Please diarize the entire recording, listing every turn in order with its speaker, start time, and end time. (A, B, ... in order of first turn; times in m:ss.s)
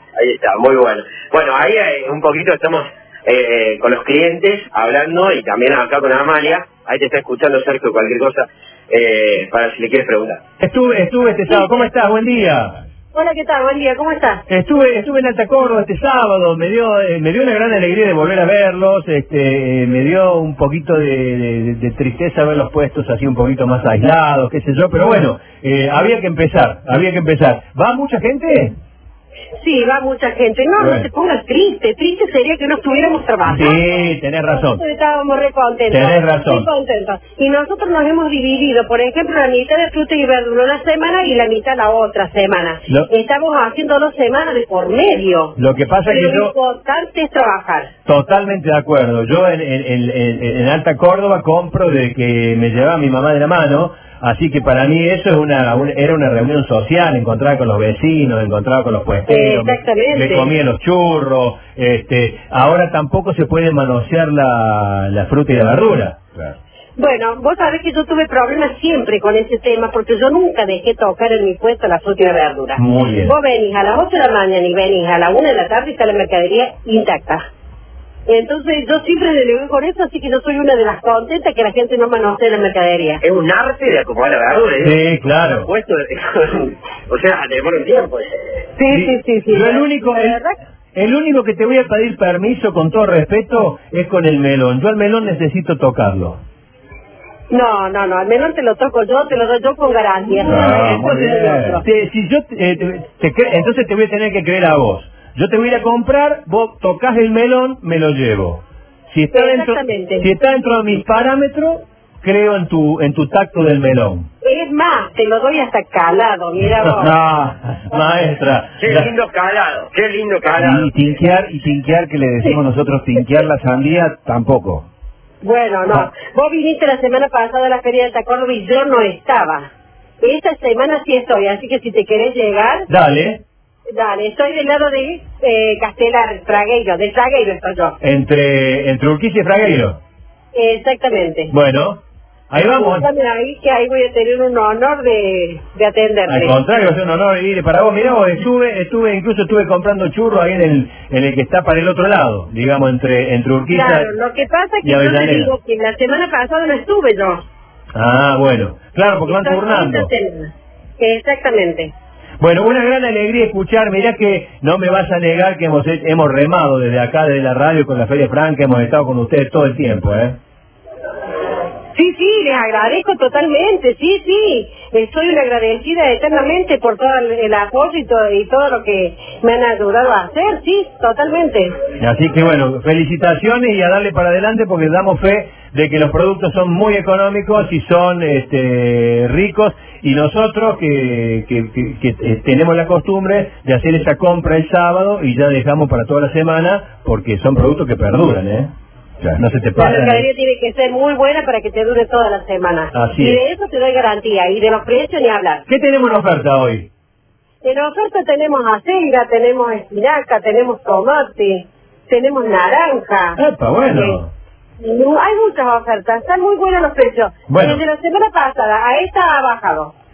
0:00.2-0:10.4 A
0:10.6-0:12.8 B
0:13.1-0:14.4 C
0:14.5-0:28.8 B
0:29.6-0:33.8 C
0:30.8-0:31.1 B
0:33.4-0:34.8 B
0:34.5-0:47.9 C
0:35.9-0:36.7 B
0:45.6-0:46.5 B
0:48.1-1:06.4 B
0:59.3-1:00.5 C
1:07.0-1:17.4 C
1:12.8-1:13.4 B
1:18.3-1:23.2 C
1:23.2-1:28.3 A
1:24.8-1:25.7 B
1:28.8-1:30.6 C
1:28.9-1:30.4 B
1:30.9-1:36.4 B
1:37.5-1:41.8 C
1:40.4-1:54.3 B
1:40.5-1:41.1 D
1:49.3-1:50.3 C
1:54.4-1:57.1 C
1:56.8-1:59.1 B
1:58.8-2:00.9 A
2:00.6-2:04.9 D
2:05.4-2:09.7 C
2:10.2-2:12.9 C
2:12.9-2:13.4 B
2:13.9-2:18.0 C
2:18.0-2:20.0 B
2:20.6-2:21.5 C
2:21.5-2:23.1 B
2:22.5-2:26.6 C
2:26.2-2:34.1 B
2:33.7-2:37.4 C
2:34.8-2:35.5 B
2:37.9-2:40.1 B
2:39.2-2:41.9 C
2:42.4-2:50.4 B
2:51.9-3:01.8 C
3:02.0-3:18.7 B
3:19.4-3:20.2 B
3:19.7-3:25.6 C
3:22.9-3:23.4 B
3:25.7-3:26.9 B
3:27.6-3:33.4 C
3:33.4-3:34.3 B
3:33.9-3:34.2 C
3:34.8-3:39.9 C
3:37.5-3:37.8 B